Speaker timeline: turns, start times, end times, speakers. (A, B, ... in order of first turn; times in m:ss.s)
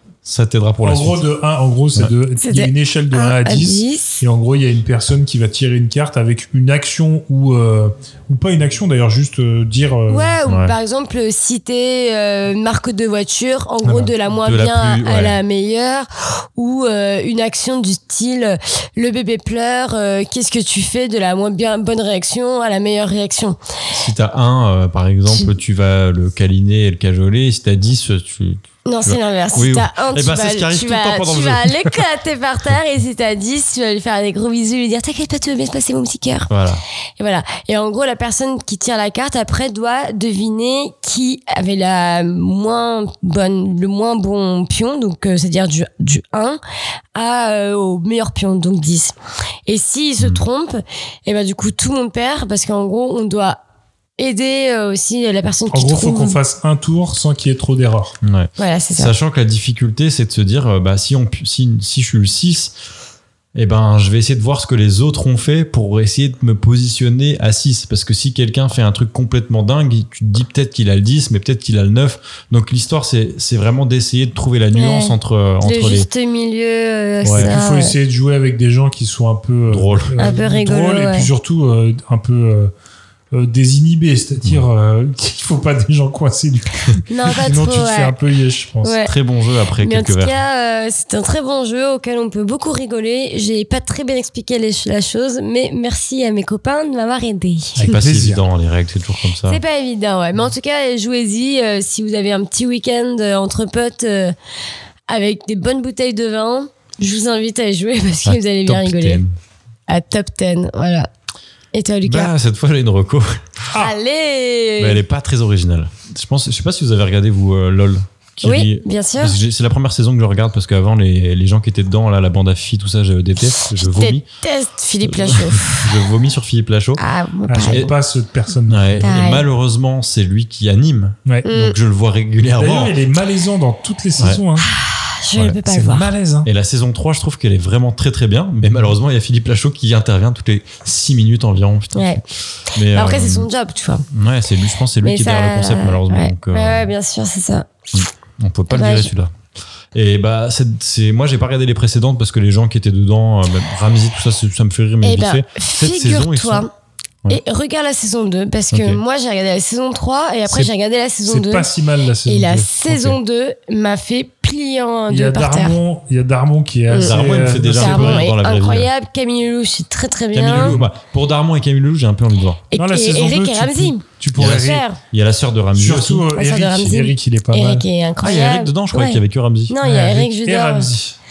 0:00.2-0:01.2 A
0:00.8-0:10.3 B
0:02.4-0:04.2 C
0:10.1-0:23.6 C
0:10.5-0:10.8 A
0:13.8-0:14.1 B
0:14.4-0:15.4 A
0:23.9-0:31.9 A
0:28.9-0:36.5 C
0:36.5-0:36.8 A
0:37.2-0:46.6 C
0:47.2-0:49.1 C
0:49.7-0:53.6 C
0:54.2-0:56.4 C
0:55.7-0:58.2 B
0:58.2-1:02.8 A
0:58.6-0:59.1 C
1:03.6-1:16.1 A
1:14.7-1:17.9 C
1:17.2-1:17.6 A
1:17.4-1:22.7 B
1:19.7-1:20.4 A
1:20.2-1:21.3 C
1:23.3-1:29.0 B
1:27.1-1:28.1 C
1:28.8-1:29.1 C
1:29.0-1:30.4 A
1:29.8-1:37.8 C
1:37.8-1:39.6 A
1:37.8-1:38.4 B
1:39.5-1:44.3 C
1:45.1-1:49.2 C
1:48.2-1:49.4 A
1:49.9-1:51.1 C
1:51.7-1:52.3 C
1:52.0-1:53.7 A
1:53.8-1:55.0 C
1:54.8-2:04.2 A
1:58.4-1:59.4 C
2:03.8-2:05.8 C
2:05.0-2:07.0 A
2:07.0-2:07.9 C
2:07.5-2:09.0 B
2:07.7-2:07.9 A
2:08.7-2:13.0 A
2:09.0-2:09.4 C
2:11.4-2:11.8 C
2:12.6-2:14.7 B
2:14.7-2:16.1 C
2:15.6-2:16.5 B
2:16.4-2:23.5 A
2:22.0-2:22.2 C
2:22.9-2:24.0 C
2:24.1-2:26.9 A
2:25.0-2:27.7 C
2:27.9-2:29.3 A
2:28.7-2:29.1 C
2:29.9-2:36.7 A
2:35.0-2:36.7 C
2:37.3-2:41.7 C
2:38.7-2:39.0 A
2:41.3-2:43.2 B
2:42.3-2:45.8 C
2:45.1-2:48.3 B
2:46.9-2:50.8 C
2:47.0-2:48.9 A
2:50.3-2:52.6 A
2:50.5-2:50.8 B
2:52.7-2:55.0 C
2:52.8-2:54.8 B
2:54.4-2:56.3 A
2:55.8-2:57.8 B
2:56.4-3:00.9 C
2:58.2-2:59.8 A
2:59.8-3:01.2 B